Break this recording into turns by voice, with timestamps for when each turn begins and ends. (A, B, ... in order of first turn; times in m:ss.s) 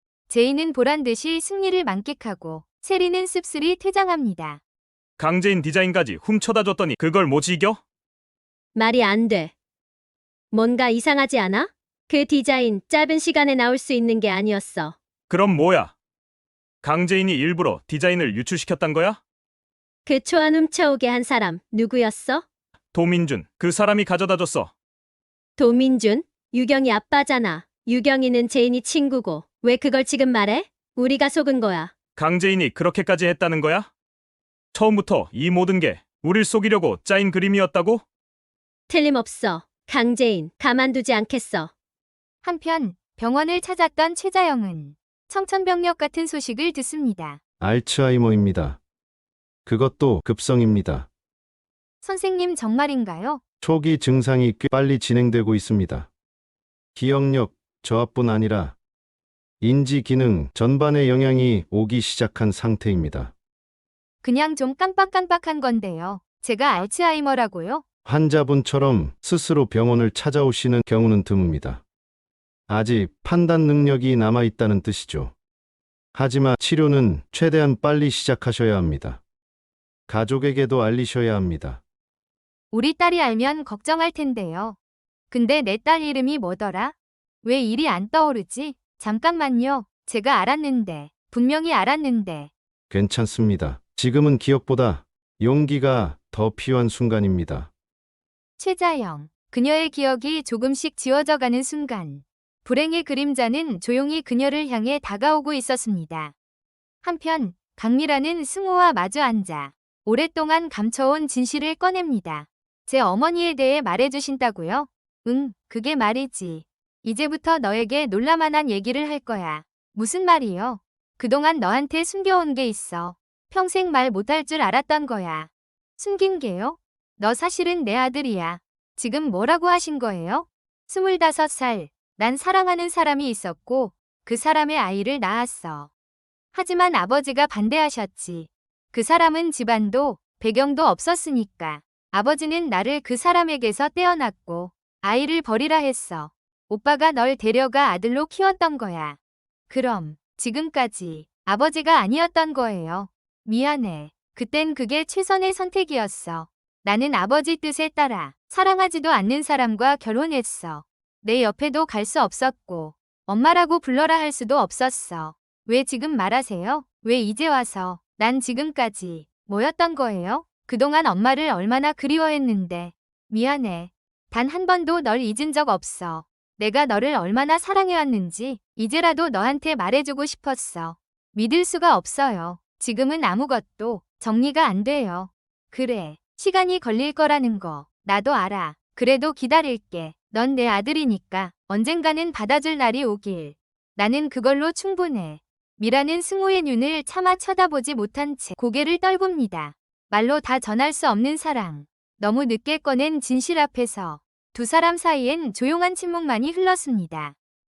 0:00.3-0:04.6 A
0:05.2-0:07.8 B
0:08.7-0:09.5 C
0:10.5-0:15.0 C
0:15.3-0:15.9 B
0:16.8-0:19.2 B
0:20.0-0:22.4 C
0:22.9-0:24.7 B
0:25.6-0:31.9 C
0:32.2-0:33.9 B
0:34.7-0:38.0 B
0:38.9-0:41.7 C
0:42.4-0:47.4 A
0:47.6-0:48.8 D
0:49.6-0:51.1 D
0:52.0-0:53.4 A
0:53.6-0:56.1 D
0:56.9-0:58.8 D
0:59.6-1:03.3 D
1:04.2-1:07.8 A
1:08.0-1:11.8 D
1:12.7-1:15.3 D
1:16.1-1:19.2 D
1:20.1-1:21.8 D
1:22.7-1:24.8 A
1:25.3-1:32.5 A
1:32.9-1:37.7 D
1:38.6-1:46.3 A
1:47.0-2:15.9 A
2:16.5-2:29.2 A
2:29.7-3:27.3 A